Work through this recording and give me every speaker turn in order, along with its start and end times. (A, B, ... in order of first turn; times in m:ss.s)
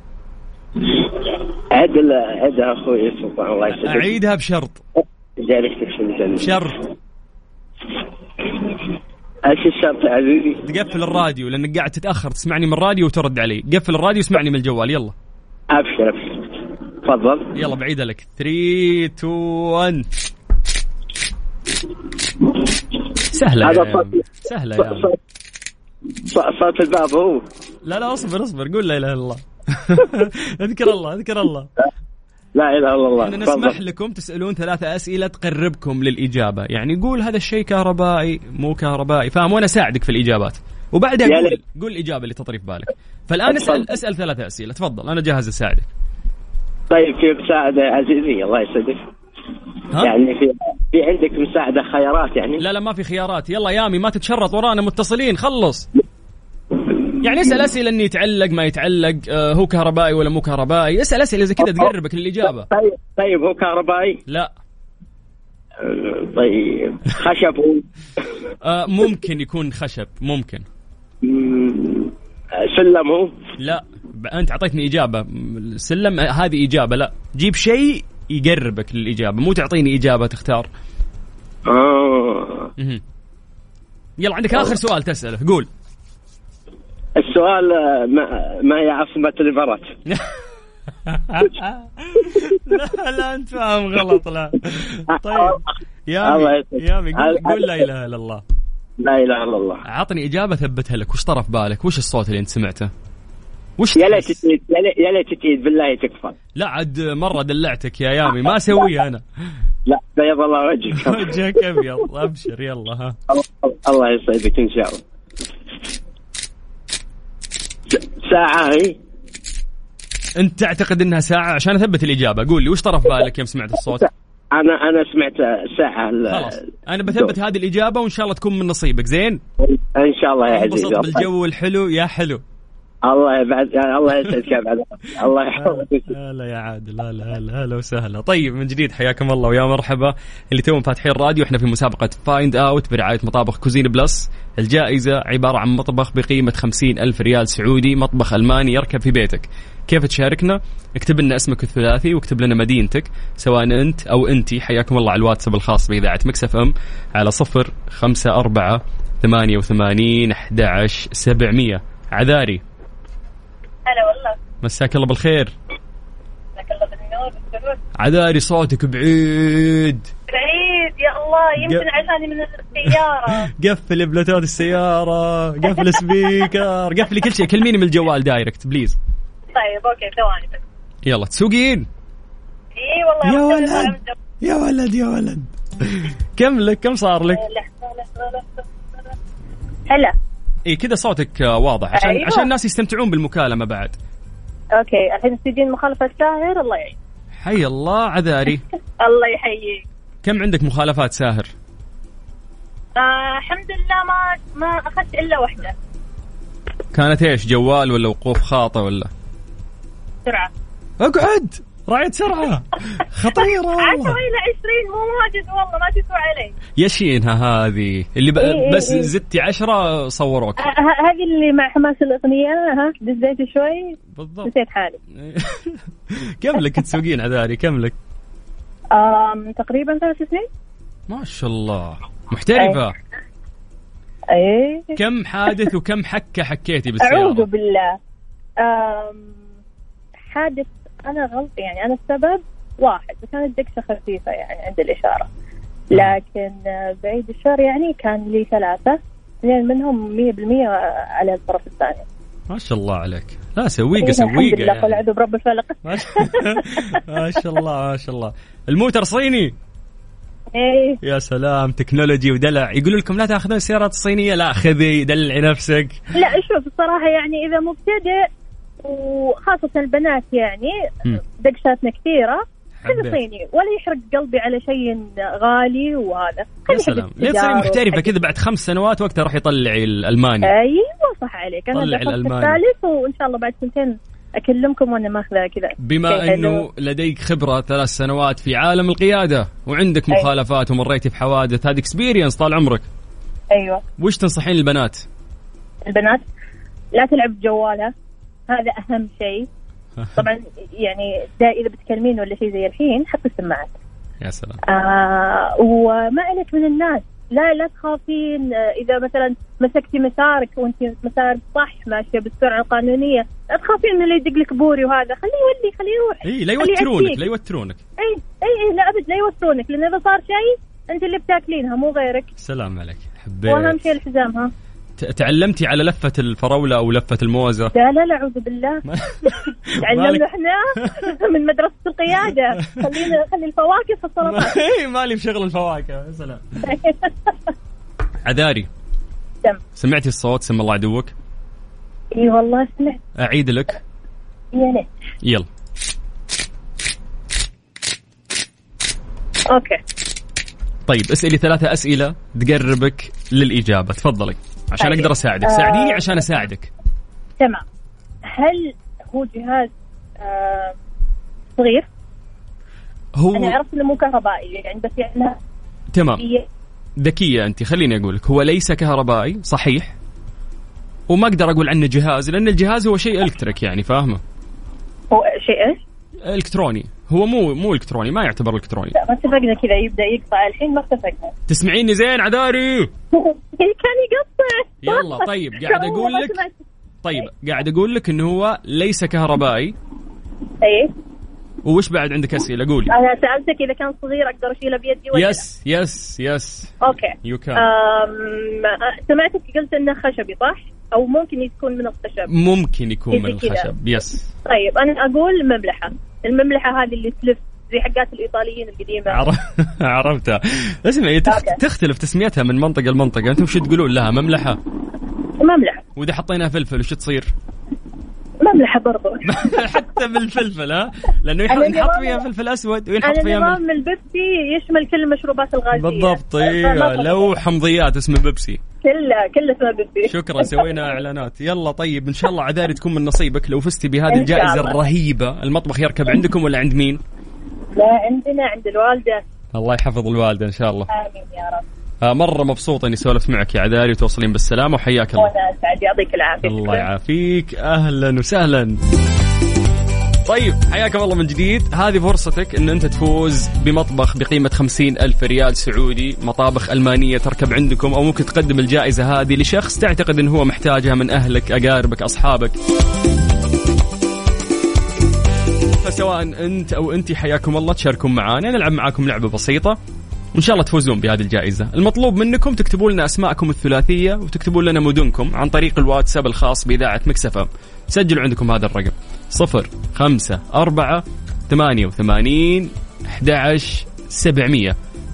0:00.8-0:04.1 A
0:03.7-0:04.8 B
0:05.4-0:06.5 A
0:06.4-0:06.8 B
0:08.4-0:08.7 A
0:09.4-0:10.6 A
0:10.6-0:15.1 B
0:15.7-0:17.5 A
0:17.5-0:20.0 B
0:23.3-0:25.1 B
0:23.6-0:24.2 A
0:24.8-0:25.2 A
0:26.2-0:27.4 A
0:27.8-0:31.7 B
0:32.6-0:33.7 A
0:33.2-0:45.9 B
0:41.2-0:41.6 A
0:43.5-0:43.8 A
0:46.9-0:49.0 A
0:50.0-0:52.6 A
0:52.6-0:55.9 B
0:57.2-1:02.7 B
1:02.6-1:04.2 A
1:05.8-1:07.8 A
1:08.6-1:10.6 B
1:11.2-1:13.3 A
1:13.6-1:20.7 B
1:21.7-1:22.7 A
1:24.2-1:25.7 B
1:27.2-1:29.9 A
1:31.1-1:35.6 B
1:35.1-1:35.6 A
1:36.1-1:38.4 B
1:36.2-1:37.8 A
1:39.0-1:39.8 A
1:39.9-1:42.9 B
1:43.8-1:44.4 B
1:44.0-1:46.4 A
1:46.6-1:49.2 B
1:49.9-1:51.4 A
1:51.0-1:53.2 B
1:53.3-1:55.0 A
1:57.9-1:59.0 A
2:00.4-2:04.1 B
2:04.5-2:07.3 A
2:06.3-2:09.4 B
2:09.6-2:11.2 A
2:10.5-2:12.4 B
2:13.0-2:16.1 A
2:15.6-2:42.6 B
2:43.8-2:44.4 C
2:44.6-2:45.5 B
2:46.6-2:47.8 C
2:48.0-2:50.1 B
2:50.3-2:53.5 C
2:51.6-2:51.9 B
2:53.5-2:59.0 B
2:55.7-2:56.5 C
2:59.5-3:00.6 C
3:01.0-3:01.9 B
3:02.8-3:04.1 C
3:03.2-3:07.4 B
3:07.3-3:09.0 C
3:10.7-3:14.0 B
3:11.9-3:12.5 C
3:14.8-3:17.0 C
3:17.4-3:18.6 B
3:19.0-3:19.8 C
3:20.2-3:21.5 B
3:23.0-3:25.7 C
3:26.9-3:29.1 B
3:31.0-3:34.2 B
3:33.8-3:36.5 C
3:36.8-3:40.6 B
3:38.4-3:39.1 C
3:40.6-3:45.0 C
3:44.2-3:44.5 B
3:45.2-3:48.0 B
3:48.9-3:50.5 C
3:51.1-3:52.9 B
3:52.6-3:52.8 C
3:54.3-3:55.7 C
3:55.0-3:57.5 B
3:57.0-3:58.0 C
3:58.6-3:59.3 C
4:00.2-4:05.3 C
4:05.9-4:12.0 C
4:12.5-4:15.0 B
4:14.0-4:17.0 C
4:15.9-4:19.5 B
4:20.5-4:21.0 C
4:21.0-4:26.0 B
4:26.1-4:28.3 C
4:28.8-4:30.7 C
4:31.3-4:38.1 C
4:32.8-4:33.2 B
4:36.7-4:40.5 B
4:40.4-4:46.6 C
4:41.7-4:42.6 B
4:45.8-4:52.8 B
4:53.5-4:53.8 C
4:54.0-4:55.0 B
4:55.9-4:56.2 C
4:56.9-4:57.9 C
4:58.5-4:59.5 C
5:00.0-5:00.2 B
5:00.2-5:03.7 C
5:04.2-5:04.6 B
5:04.6-5:17.2 C
5:16.2-5:17.8 B
5:18.0-5:22.3 C
5:22.4-5:23.8 B
5:23.5-5:24.5 C
5:25.0-5:27.7 B
5:27.7-5:29.3 C
5:28.9-5:30.2 B
5:29.8-5:34.6 C
5:30.8-5:31.1 B
5:32.6-5:33.0 B
5:34.2-5:36.4 B
5:36.6-5:37.1 C
5:38.2-5:38.7 B
5:39.8-5:41.1 B
5:42.1-5:43.0 C
5:43.2-5:43.8 B
5:44.5-5:44.9 C
5:49.5-5:49.8 C
5:50.9-5:56.7 B
5:54.8-5:56.4 C
5:58.3-6:00.7 C
6:01.6-6:01.9 C
6:03.2-6:03.6 B
6:03.3-6:05.4 C
6:05.9-6:06.2 B
6:06.2-6:06.4 C
6:07.0-6:09.9 B
6:11.1-6:14.2 B
6:15.1-6:15.8 C
6:16.2-6:18.9 B
6:18.9-6:21.3 C
6:21.5-6:22.9 B
6:23.1-6:26.5 C
6:24.8-6:26.4 B
6:27.0-6:29.8 B
6:30.6-6:30.9 C
6:31.6-6:32.9 B
6:32.9-6:35.4 C
6:35.1-6:37.6 B
6:36.8-6:42.3 C
6:42.3-6:44.3 B
6:43.1-6:43.7 C
6:44.4-6:49.2 C
6:49.1-6:54.6 B
6:51.3-6:51.6 C
6:55.4-6:55.8 C
6:56.0-6:57.3 B
6:58.4-6:59.2 C
6:59.3-7:03.6 B
7:01.5-7:02.2 C
7:03.0-7:07.3 C
7:05.7-7:08.6 B
7:08.8-7:10.9 C
7:10.1-7:17.0 B
7:14.1-7:14.8 C
7:17.8-7:19.2 C
7:19.5-7:20.9 B
7:20.9-7:21.6 C
7:22.0-7:25.3 B
7:25.2-7:26.8 C
7:26.4-7:28.8 B
7:30.3-7:42.5 B
7:45.8-7:49.8 B
7:50.3-8:04.8 B